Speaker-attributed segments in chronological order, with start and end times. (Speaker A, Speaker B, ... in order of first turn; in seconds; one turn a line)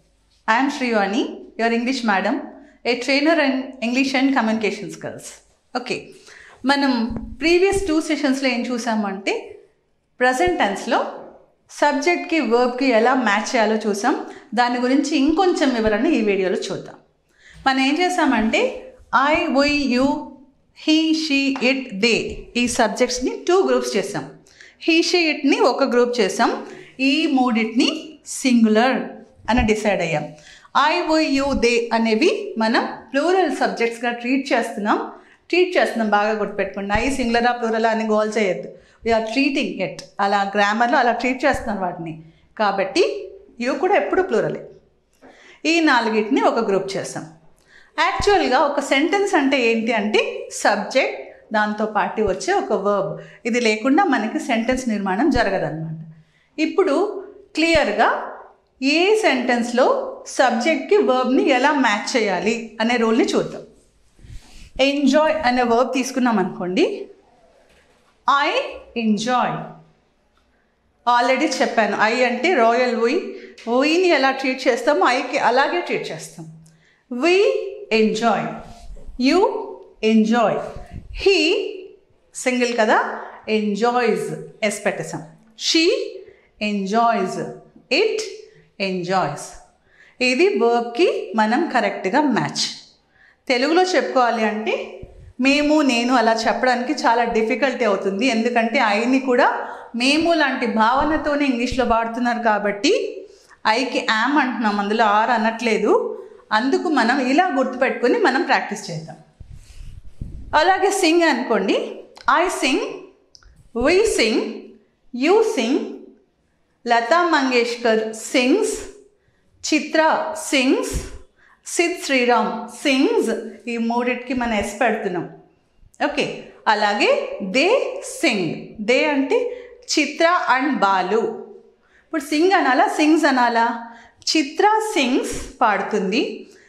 Speaker A: 0.5-6.0
Speaker A: 6.7-9.4
Speaker A: 10.2-11.0
Speaker A: 11.7-17.0
Speaker A: 17.6-18.6
Speaker A: 19.2-20.3
Speaker A: 20.8-24.3
Speaker A: 24.8-43.1
Speaker A: 43.6-44.6
Speaker A: 45.7-47.3
Speaker A: 48.0-56.0
Speaker A: 56.6-57.0
Speaker A: 57.5-58.1
Speaker A: 58.9-63.6
Speaker A: 64.8-66.9
Speaker A: 68.3-69.6
Speaker A: 71.1-76.5
Speaker A: 77.2-78.6
Speaker A: 79.2-80.6
Speaker A: 81.1-88.3
Speaker A: 88.8-89.5
Speaker A: 90.2-92.7
Speaker A: 93.5-94.8
Speaker A: 95.4-103.0
Speaker A: 103.7-106.0
Speaker A: 106.5-109.2
Speaker A: 110.5-111.8
Speaker A: 112.3-113.0
Speaker A: 113.8-114.7
Speaker A: 115.2-116.0
Speaker A: 116.9-118.8
Speaker A: 119.6-121.0
Speaker A: 121.7-125.3
Speaker A: 126.0-129.4
Speaker A: 129.9-131.2
Speaker A: 132.1-133.7
Speaker A: 134.3-136.3